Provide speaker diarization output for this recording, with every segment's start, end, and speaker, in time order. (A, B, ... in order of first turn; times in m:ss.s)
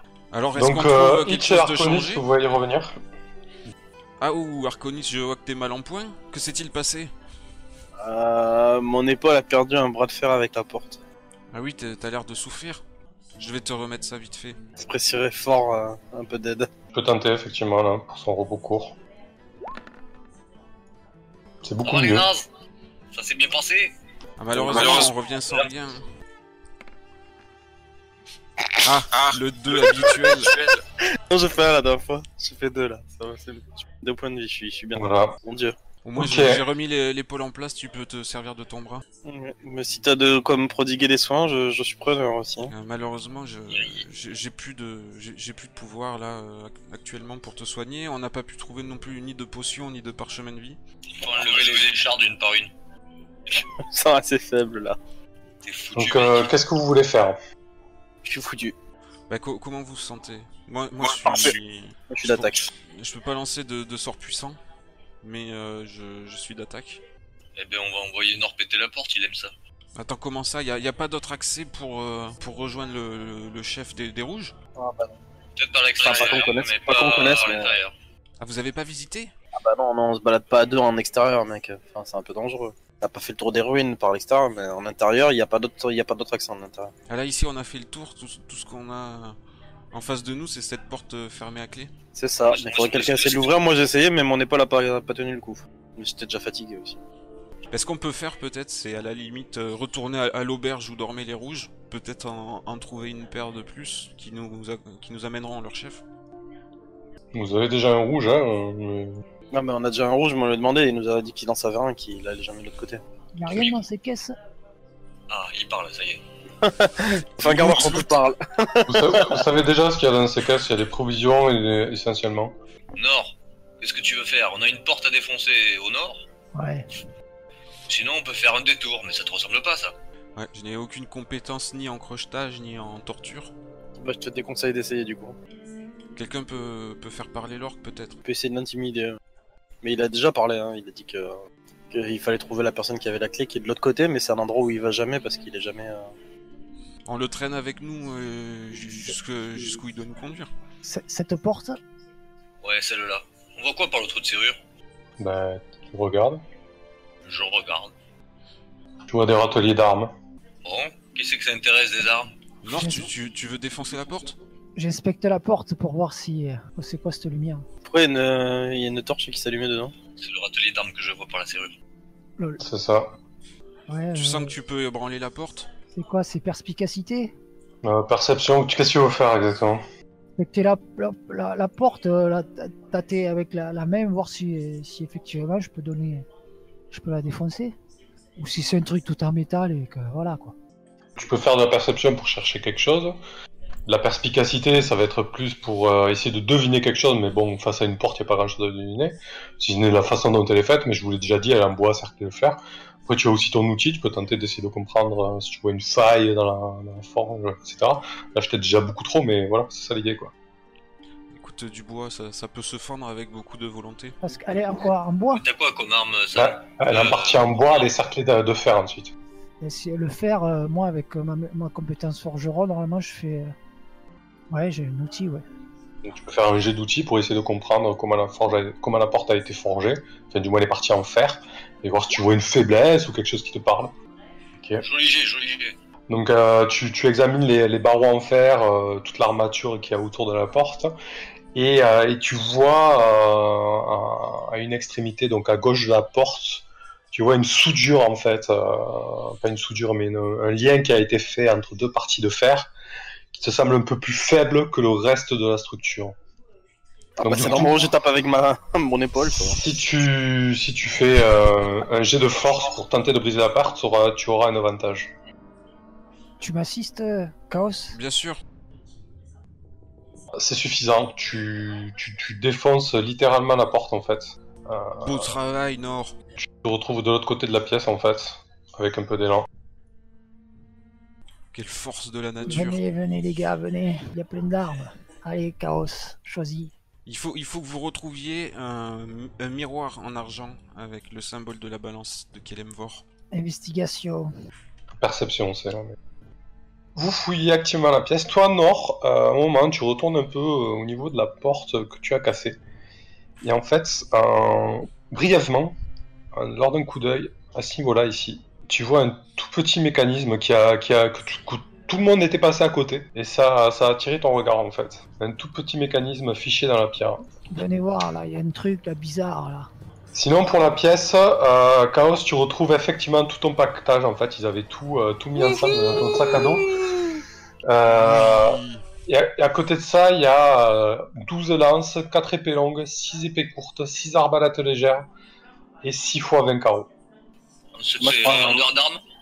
0:00.3-0:02.2 A
0:00.6-0:03.0 B
0:04.2-0:07.1 A
0:08.0-0:11.0 C
0:11.5-0:12.8 A
0:13.4-0:14.6 A
0:14.8-0:16.7 C
0:16.9-0:19.0 B
0:21.6-0:22.3 B
0:21.8-0:22.5 D
0:23.1-0:24.0 D
0:24.4-0:26.1 A
0:24.5-0:25.1 C
0:24.7-0:25.6 D
0:28.8-0:30.6 A
0:31.3-0:35.8 C
0:35.0-0:35.4 B
0:36.0-0:39.0 A
0:36.2-0:36.6 B
0:39.2-0:42.7 C
0:42.7-0:50.8 A
0:51.2-0:52.7 D
0:53.6-0:55.0 C
0:55.6-0:56.5 D
0:56.0-0:57.4 B
0:58.2-0:58.8 C
0:59.3-1:04.6 A
1:01.0-1:01.6 C
1:02.1-1:02.7 C
1:05.2-1:07.0 A
1:07.6-1:09.5 D
1:10.0-1:14.6 A
1:14.8-1:15.1 C
1:15.6-1:17.9 D
1:16.0-1:17.8 C
1:18.4-1:19.3 A
1:19.6-1:26.9 C
1:27.1-1:29.4 A
1:29.9-1:31.9 A
1:32.2-1:37.0 C
1:32.5-1:33.6 D
1:37.7-1:46.0 A
1:47.3-1:49.2 B
1:49.5-1:53.0 C
1:53.4-1:54.4 E
1:53.5-1:53.8 D
1:55.3-1:56.2 D
1:56.6-1:59.4 C
1:57.4-1:58.2 A
1:58.9-2:02.6 B
2:03.0-2:06.2 D
2:06.5-2:06.9 E
2:07.9-2:09.9 D
2:10.4-2:13.5 A
2:14.0-2:15.4 C
2:16.2-2:18.2 A
2:18.2-2:19.2 C
2:19.8-2:21.4 C
2:21.9-2:26.1 C
2:27.1-2:30.5 A
2:30.8-2:31.8 E
2:32.6-2:34.6 D
2:35.2-2:36.4 B
2:37.2-2:37.9 D
2:39.1-2:40.1 B
2:40.6-2:42.3 D
2:42.6-2:44.4 A
2:42.7-2:43.1 E
2:44.8-2:47.7 E
2:47.8-2:49.9 C
2:50.2-2:51.7 D
2:52.6-2:53.2 B
2:53.9-2:54.5 E
2:54.1-2:55.7 A
2:56.0-2:57.3 E
2:57.8-2:59.8 B
3:00.4-3:06.3 E
3:06.9-3:07.8 E
3:08.4-3:10.6 E
3:11.2-3:13.2 B
3:13.9-3:30.3 B
3:31.3-3:34.2 A
3:34.2-3:35.4 E
3:35.4-3:37.8 D
3:36.4-3:39.1 B
3:39.6-3:43.6 E
3:44.5-3:45.4 E
3:46.0-3:53.9 B
3:54.6-3:54.8 B
3:54.8-3:55.7 D
3:56.1-4:01.0 B
4:01.6-4:12.7 B
4:13.3-4:16.2 B
4:17.2-4:19.6 C
4:17.2-4:17.9 B
4:19.3-4:25.1 B
4:26.4-4:28.0 E
4:27.9-4:28.4 A
4:30.4-4:35.4 B
4:35.0-4:36.2 A
4:36.6-4:39.5 B
4:41.5-4:42.8 A
4:42.4-4:46.7 E
4:47.1-4:53.0 A
4:53.3-4:54.3 E
4:55.0-4:56.0 B
4:57.0-5:02.6 B
5:03.4-5:05.8 B
5:06.3-5:17.2 B
5:17.5-5:19.7 E
5:20.2-5:26.8 B
5:27.7-5:35.1 B
5:27.9-5:28.8 A
5:35.8-5:36.9 B
5:37.8-5:39.0 D
5:38.0-5:38.7 C